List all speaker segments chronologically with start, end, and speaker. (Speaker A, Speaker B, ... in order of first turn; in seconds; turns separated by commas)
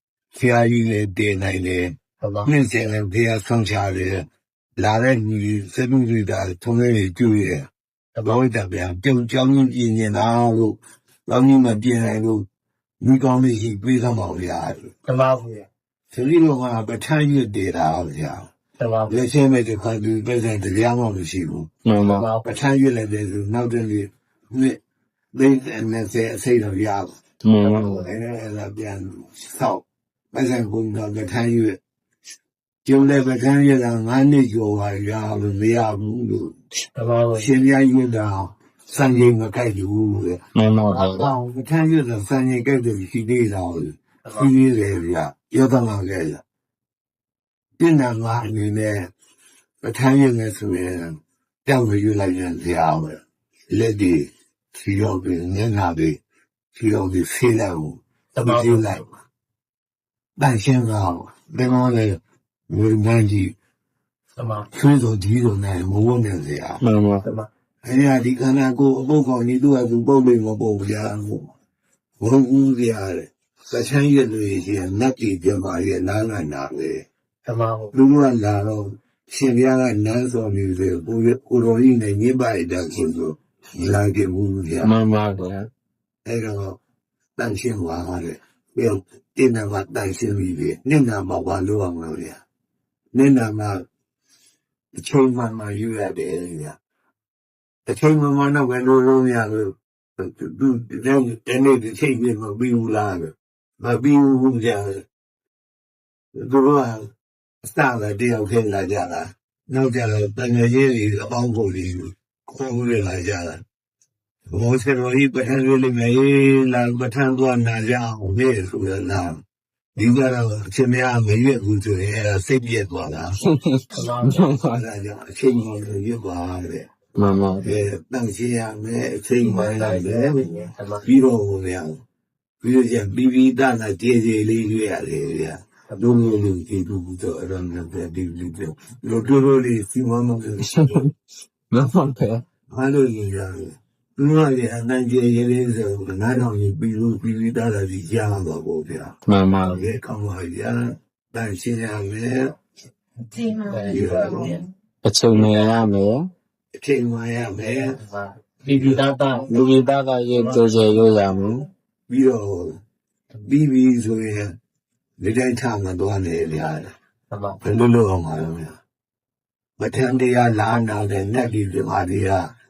Speaker A: 0.3-4.2, Speaker B: 2.2-2.5, Speaker A: 4.8-7.7, Speaker A: 8.2-12.4, Speaker A: 13.0-14.9, Speaker B: 15.0-15.7, Speaker A: 16.1-18.5, Speaker B: 18.8-19.2, Speaker A: 19.1-21.7, Speaker C: 21.8-22.3, Speaker B: 22.0-22.5, Speaker A: 22.4-24.8, Speaker A: 25.3-27.1, Speaker C: 27.4-28.1, Speaker B: 27.6-28.1, Speaker A: 28.0-31.8, Speaker A: 32.8-36.5, Speaker B: 36.9-37.5, Speaker A: 37.3-46.4, Speaker C: 40.5-41.3, Speaker A: 47.8-49.1, Speaker A: 49.8-56.2, Speaker A: 56.7-59.0, Speaker B: 58.3-59.0, Speaker A: 60.4-63.5, Speaker B: 64.4-64.7, Speaker A: 64.7-66.8, Speaker C: 66.8-67.2, Speaker B: 67.2-67.5, Speaker A: 67.8-71.5, Speaker A: 72.2-77.0, Speaker B: 77.4-77.9, Speaker A: 77.9-84.9, Speaker C: 84.8-85.7, Speaker A: 86.2-86.8, Speaker A: 87.4-92.4, Speaker A: 93.1-93.8, Speaker A: 95.0-96.8, Speaker A: 97.9-105.0, Speaker A: 106.3-107.1, Speaker A: 107.6-113.6, Speaker A: 114.5-119.4, Speaker A: 120.0-123.4, Speaker C: 123.4-124.8, Speaker B: 123.9-124.5, Speaker A: 124.6-126.9, Speaker C: 127.2-127.8, Speaker A: 127.6-130.5, Speaker B: 129.4-131.1, Speaker A: 131.0-132.0, Speaker A: 132.6-141.0, Speaker B: 135.9-136.3, Speaker C: 140.6-141.1, Speaker C: 141.7-142.4, Speaker A: 142.7-152.5, Speaker C: 149.2-149.9, Speaker B: 153.5-154.6, Speaker A: 153.8-154.6, Speaker C: 155.0-156.3, Speaker A: 156.7-158.0, Speaker B: 157.7-159.6, Speaker A: 158.7-159.0, Speaker C: 159.5-161.7, Speaker B: 160.3-160.6, Speaker A: 162.1-162.8, Speaker A: 163.4-164.5, Speaker A: 165.2-166.9, Speaker B: 167.3-167.6, Speaker A: 167.6-168.8, Speaker A: 169.8-172.5